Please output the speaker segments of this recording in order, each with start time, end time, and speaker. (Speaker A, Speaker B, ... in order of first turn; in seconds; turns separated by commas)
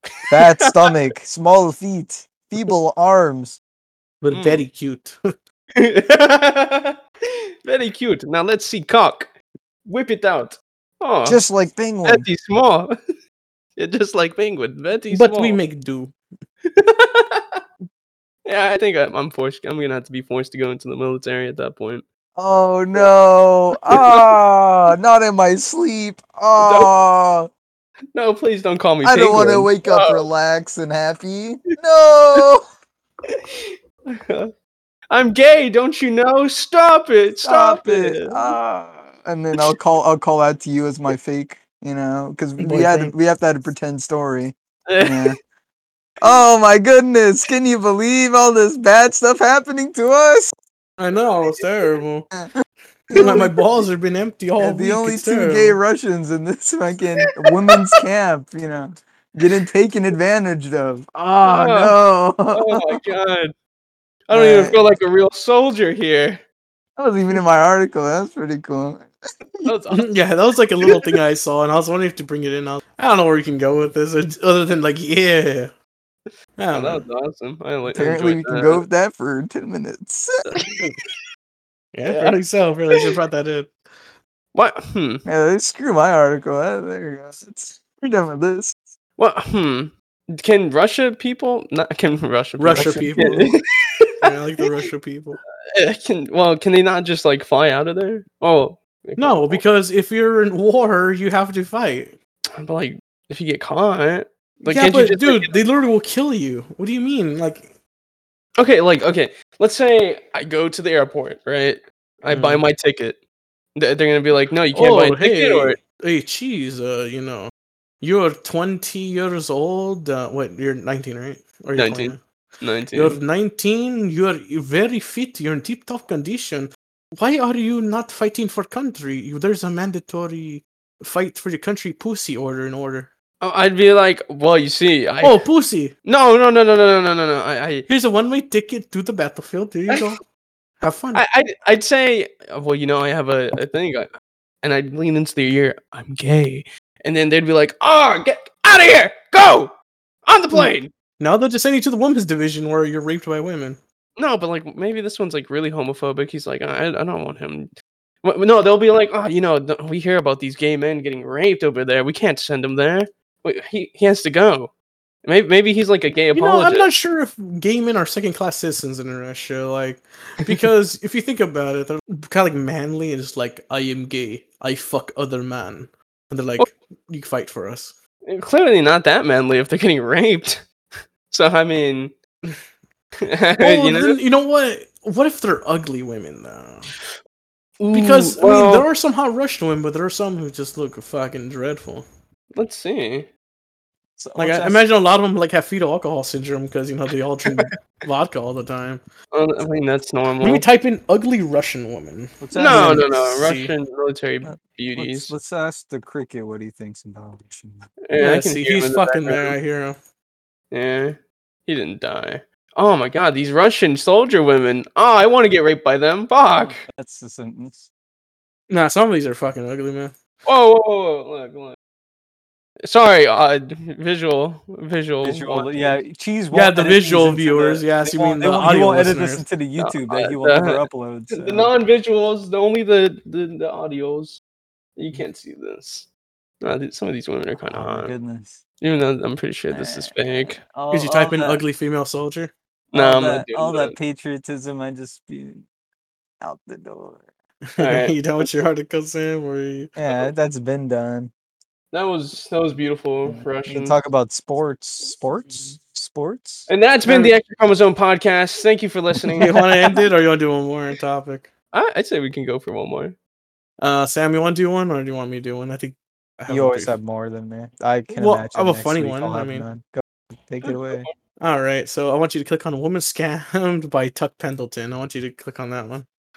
Speaker A: 0.3-0.9, Speaker B: 0.3-3.6, Speaker C: 4.2-5.2, Speaker A: 4.3-4.6, Speaker A: 5.8-7.0, Speaker A: 7.6-9.3, Speaker A: 9.9-11.4, Speaker B: 11.2-12.2, Speaker A: 12.0-12.9, Speaker A: 13.8-15.6, Speaker C: 15.1-16.1, Speaker A: 16.7-17.6, Speaker A: 18.4-22.0, Speaker B: 22.4-27.5, Speaker A: 23.9-24.2, Speaker A: 26.6-26.9, Speaker A: 28.1-30.3, Speaker B: 29.0-32.6, Speaker A: 33.3-34.5, Speaker A: 35.1-38.6, Speaker B: 37.4-45.4, Speaker C: 42.6-43.1, Speaker A: 44.9-45.3, Speaker B: 46.2-50.5, Speaker C: 51.0-52.3, Speaker B: 53.1-53.6, Speaker C: 53.1-55.8, Speaker A: 53.2-53.5, Speaker B: 54.6-63.0, Speaker A: 57.2-57.9, Speaker C: 61.1-61.4, Speaker A: 61.4-61.9, Speaker A: 62.5-63.5, Speaker A: 64.3-66.4, Speaker B: 64.3-64.8, Speaker B: 67.0-69.7, Speaker A: 69.6-70.0, Speaker C: 69.9-75.7, Speaker C: 76.6-77.0, Speaker A: 76.7-78.8, Speaker B: 77.9-80.3, Speaker A: 80.5-80.8, Speaker C: 81.9-83.7, Speaker A: 82.0-82.4, Speaker A: 84.5-85.2, Speaker B: 85.2-88.8, Speaker A: 89.2-94.1, Speaker C: 92.6-93.5, Speaker B: 92.7-93.5, Speaker C: 94.2-95.4, Speaker A: 95.7-99.6, Speaker C: 99.2-102.2, Speaker A: 102.6-105.6, Speaker C: 104.7-107.8, Speaker A: 108.6-113.2, Speaker C: 112.3-112.7, Speaker A: 113.8-115.8, Speaker C: 114.7-122.2, Speaker A: 121.8-123.2, Speaker C: 122.9-133.1, Speaker A: 133.4-135.4, Speaker C: 135.2-135.9, Speaker A: 136.0-137.9, Speaker C: 137.9-140.2, Speaker C: 140.8-141.2, Speaker A: 141.1-144.1, Speaker A: 144.6-149.7, Speaker A: 150.2-150.9, Speaker C: 150.5-153.8, Speaker A: 154.2-157.7, Speaker A: 158.2-164.7, Speaker A: 165.2-166.9, Speaker C: 166.3-177.9, Speaker A: 178.3-180.6, Speaker A: 181.3-182.1, Speaker A: 183.2-184.2, Speaker C: 183.6-186.9, Speaker A: 187.8-188.9, Speaker C: 187.9-192.1, Speaker A: 192.6-193.3, Speaker B: 194.2-194.8, Speaker C: 194.4-199.0, Speaker A: 199.3-200.7, Speaker C: 200.4-203.7, Speaker B: 202.4-203.1, Speaker A: 202.5-205.3, Speaker B: 204.4-207.9, Speaker A: 208.1-209.6, Speaker C: 208.2-210.0, Speaker A: 210.7-216.8, Speaker B: 216.6-217.9, Speaker C: 218.7-220.1, Speaker A: 220.4-221.8, Speaker A: 222.9-226.0, Speaker B: 225.2-231.7, Speaker C: 226.5-229.4, Speaker A: 229.8-234.4, Speaker A: 235.0-236.1, Speaker A: 236.6-238.1, Speaker B: 237.7-238.6, Speaker A: 238.8-240.6, Speaker B: 239.7-240.2, Speaker B: 240.7-241.6, Speaker C: 240.9-242.5, Speaker A: 242.9-244.0, Speaker B: 242.9-245.6, Speaker B: 246.4-247.3, Speaker C: 247.7-249.9, Speaker A: 247.8-248.2, Speaker B: 249.9-251.3, Speaker A: 251.9-254.0, Speaker B: 253.2-257.3, Speaker A: 256.7-259.9, Speaker C: 259.4-261.5, Speaker A: 261.7-263.2, Speaker C: 263.8-267.0, Speaker B: 266.5-271.1, Speaker C: 268.1-269.7, Speaker A: 270.6-271.1, Speaker C: 271.4-276.1